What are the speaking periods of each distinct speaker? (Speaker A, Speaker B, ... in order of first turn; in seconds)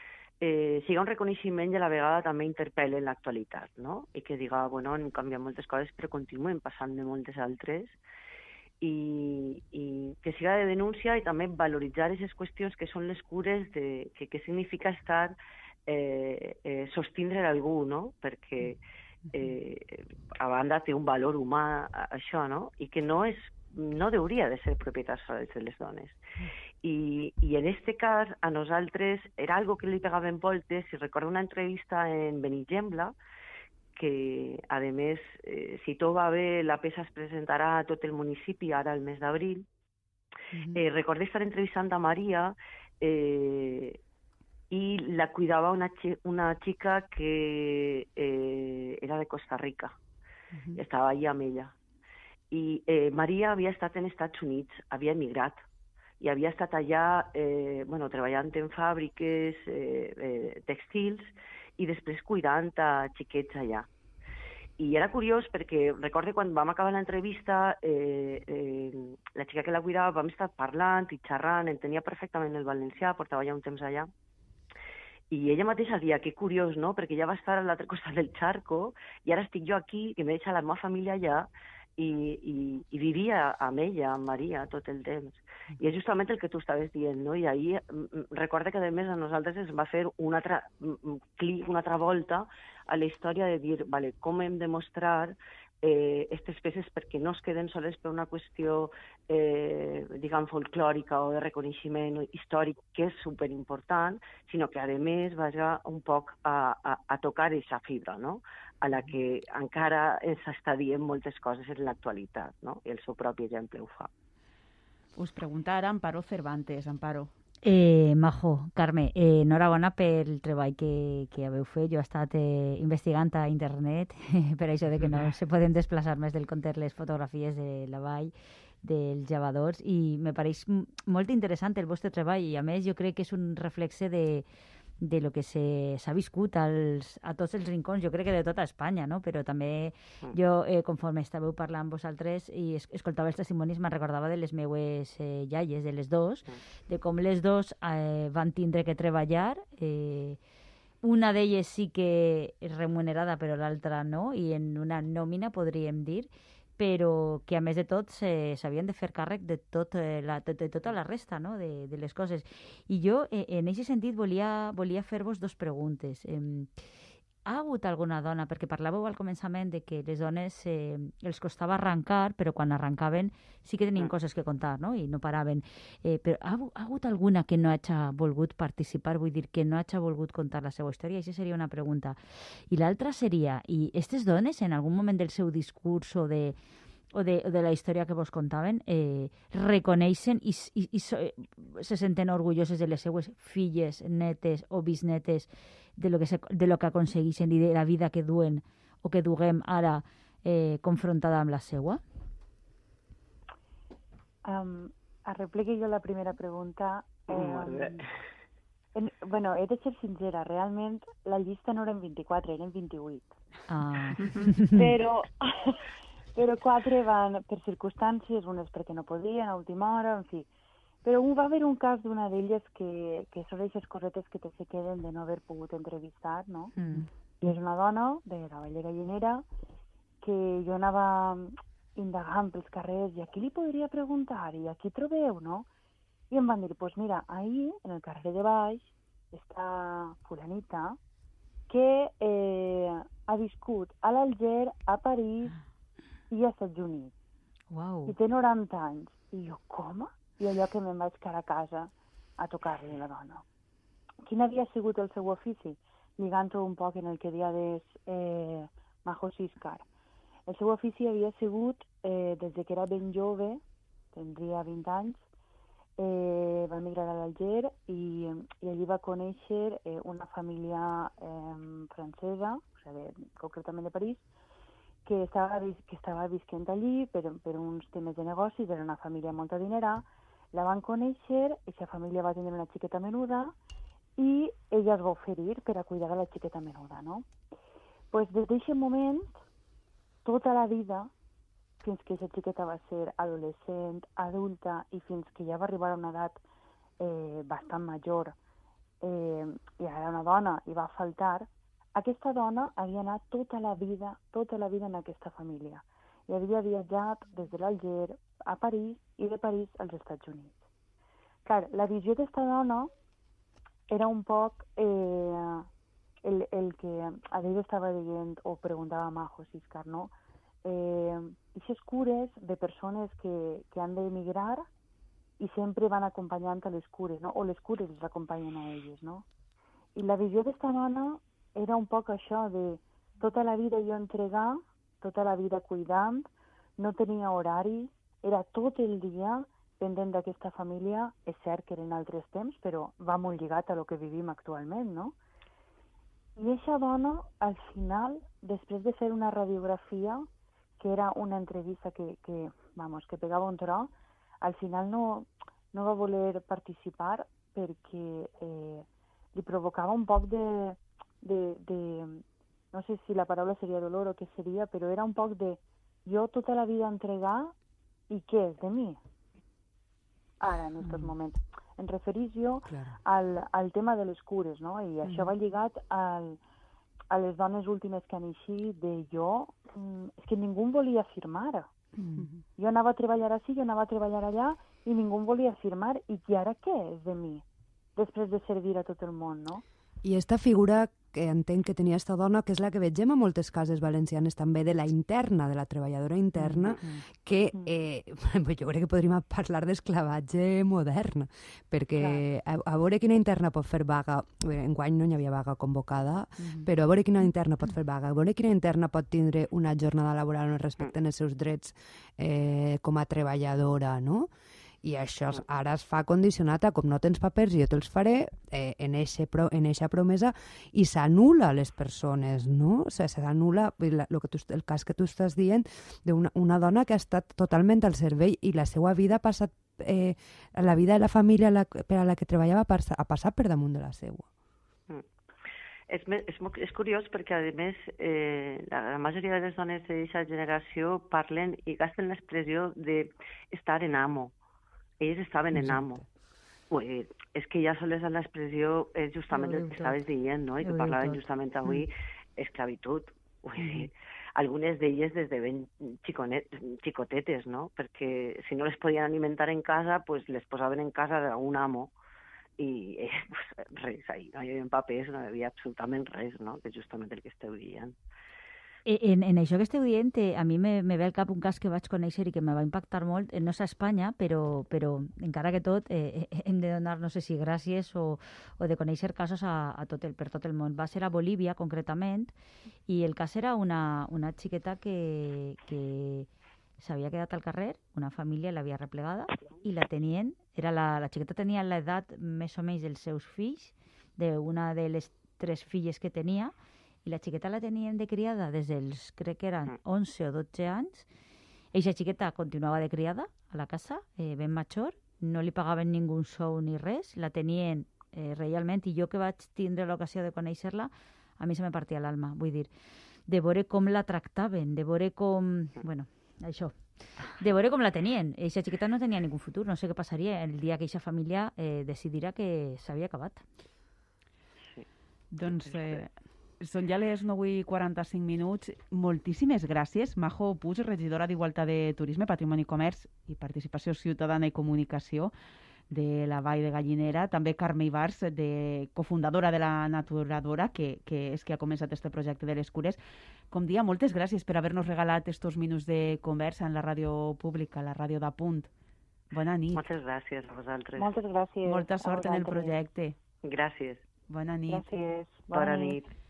Speaker A: 0.4-8.0, 8.8-15.3, 15.9-18.8, 19.3-26.2, 26.8-33.1, 33.9-39.6, 40.7-44.0, 44.7-50.0, 50.8-51.7, 52.5-55.6, 56.2-63.9, 64.8-74.1, 75.3-114.1, 207.3-208.0, 435.9-444.3, 445.0-446.0, 446.7-461.9, 462.6-467.9, 525.5-526.0, 549.7-551.1, 553.4-554.0, 555.5-556.1
Speaker B: 40.5-40.8, 50.5-50.8, 372.7-373.0, 390.0-414.3, 414.8-434.2
Speaker C: 115.2-117.3, 125.0-125.3, 382.0-382.3, 525.3-535.3, 535.9-543.0, 543.5-548.7, 549.3-549.8, 551.6-553.1, 554.3-554.8
Speaker D: 117.6-134.4, 135.0-150.4, 151.0-166.7, 167.4-182.2, 182.7-186.6, 187.1-202.0, 213.7-214.8, 226.8-227.1, 247.7-248.1, 449.3-450.0, 450.6-451.3, 468.9-482.3, 482.9-486.3, 486.8-496.5, 497.0-501.1, 501.7-512.7, 513.3-516.7, 517.4-523.4
Speaker E: 204.4-208.0, 208.9-213.3, 214.7-215.8, 216.3-220.5, 221.0-226.7, 227.4-229.4, 230.2-235.7, 236.3-241.0, 241.7-245.5, 246.3-247.1, 248.1-253.4, 254.2-259.8, 260.5-263.6, 264.1-265.2, 266.0-274.2, 275.0-283.5, 284.2-287.3, 288.1-289.3, 290.2-291.1, 291.8-296.4, 297.0-298.4, 299.0-310.6, 311.4-312.9, 313.9-315.7, 316.2-320.1, 320.6-324.7, 325.4-329.2, 329.9-336.3, 336.8-345.1, 346.4-350.2, 350.8-367.5, 368.1-369.0, 370.4-376.4, 377.1-381.7, 382.6-387.4, 387.9-389.6, 402.0-402.2, 551.0-552.8, 554.7-556.0